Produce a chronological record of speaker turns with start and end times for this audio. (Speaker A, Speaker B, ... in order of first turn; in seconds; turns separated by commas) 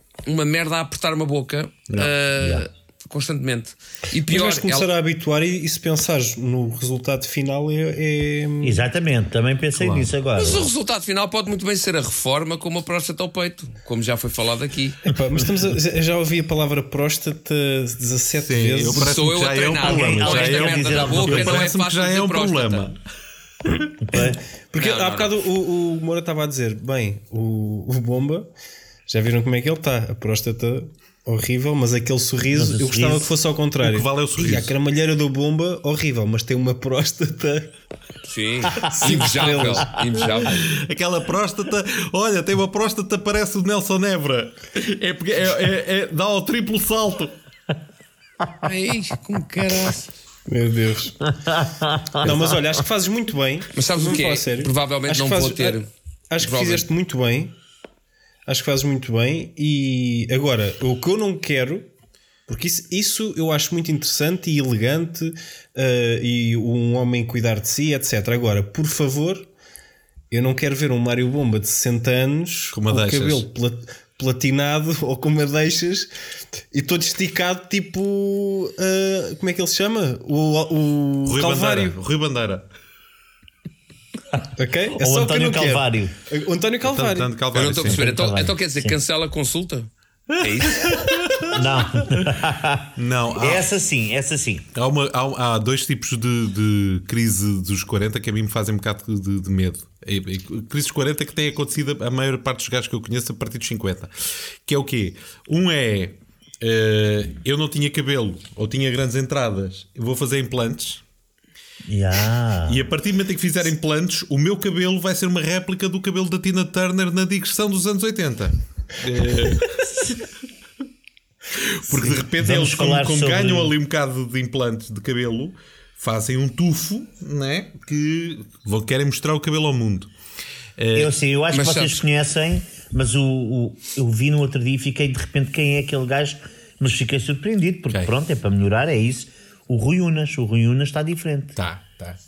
Speaker A: 0.2-4.9, Speaker B: 4.3-8.8, Speaker C: 8.6-10.7, Speaker D: 9.7-10.1, Speaker A: 10.3-15.0, Speaker B: 15.1-19.1, Speaker D: 18.4-23.0, Speaker A: 18.9-22.9, Speaker C: 19.8-21.7, Speaker D: 23.6-23.9, Speaker C: 24.1-24.4, Speaker B: 24.1-28.5, Speaker A: 24.8-25.4, Speaker B: 29.1-37.7, Speaker C: 32.5-33.3, Speaker D: 33.8-34.7, Speaker A: 38.2-40.5, Speaker B: 38.8-40.5, Speaker D: 40.5-47.3, Speaker A: 48.6-50.1, Speaker B: 50.5-51.3, Speaker C: 51.4-52.5, Speaker B: 52.2-57.5, Speaker A: 53.7-56.9, Speaker B: 58.5-61.9, Speaker B: 62.5-69.5, Speaker B: 70.3-76.1, Speaker D: 72.7-73.4, Speaker B: 76.7-82.0, Speaker D: 81.2-82.7, Speaker B: 84.5-87.3, Speaker C: 85.0-86.1, Speaker D: 86.8-88.1, Speaker A: 87.5-91.1, Speaker C: 87.8-88.9, Speaker D: 90.3-92.3, Speaker C: 91.5-94.7, Speaker D: 93.0-93.7, Speaker D: 94.7-111.0, Speaker C: 111.9-112.8, Speaker D: 112.7-120.2, Speaker D: 121.5-130.1, Speaker C: 121.9-123.7, Speaker D: 130.8-131.1, Speaker C: 130.9-141.6, Speaker A: 131.5-132.0, Speaker D: 141.6-142.2